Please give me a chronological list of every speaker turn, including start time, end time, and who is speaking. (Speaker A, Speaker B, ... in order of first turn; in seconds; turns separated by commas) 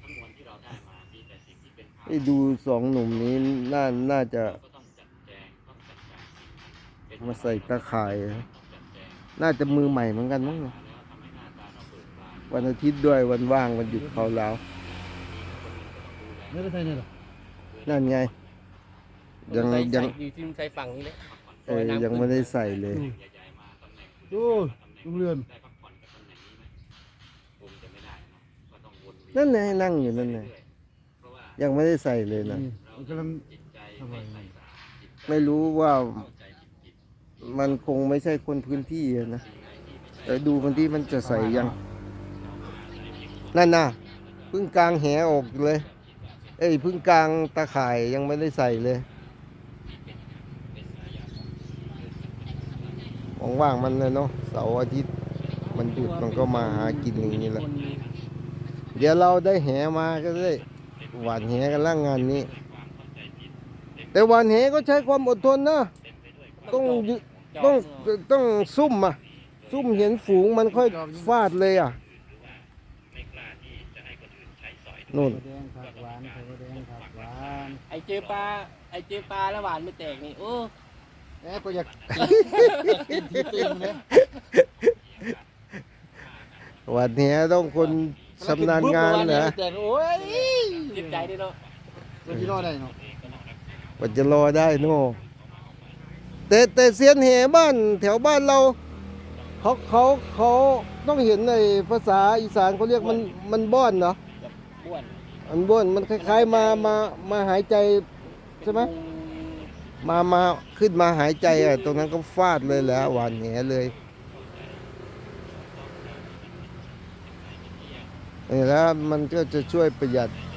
Speaker A: 2.1-4.6, Speaker A: 7.2-8.5, Speaker A: 9.4-10.8, Speaker A: 12.5-14.6, Speaker B: 13.9-14.3, Speaker B: 16.5-17.1, Speaker A: 17.9-18.3, Speaker A: 19.5-20.1, Speaker C: 19.5-22.5, Speaker A: 21.7-23.1, Speaker B: 22.9-23.2, Speaker B: 24.3-25.5, Speaker A: 29.3-30.5, Speaker A: 31.6-32.7, Speaker B: 32.4-33.5, Speaker B: 34.0-34.5, Speaker A: 35.3-36.3, Speaker A: 37.4-39.4, Speaker A: 40.2-41.8, Speaker B: 41.2-41.8, Speaker A: 43.5-44.0, Speaker A: 44.5-45.9, Speaker A: 46.6-49.1, Speaker A: 53.4-55.1, Speaker A: 55.7-57.6, Speaker C: 55.7-58.1, Speaker A: 59.0-62.5, Speaker A: 64.1-65.9, Speaker C: 66.6-68.1, Speaker A: 66.7-72.0, Speaker B: 70.7-71.4, Speaker A: 75.1-75.4, Speaker B: 75.2-77.8, Speaker C: 77.9-80.7, Speaker B: 81.4-84.0, Speaker A: 82.1-85.3, Speaker C: 82.2-83.0, Speaker A: 86.9-89.6, Speaker B: 88.4-91.3, Speaker C: 90.2-91.6, Speaker B: 92.3-93.0, Speaker A: 92.3-92.6, Speaker A: 94.0-95.2, Speaker A: 96.5-98.8, Speaker A: 99.6-104.2, Speaker C: 103.0-103.3, Speaker C: 104.4-105.2, Speaker A: 105.5-108.1, Speaker C: 106.1-107.0, Speaker C: 108.6-109.7, Speaker A: 108.6-108.9, Speaker A: 110.0-113.9, Speaker C: 111.5-112.0, Speaker A: 118.5-120.3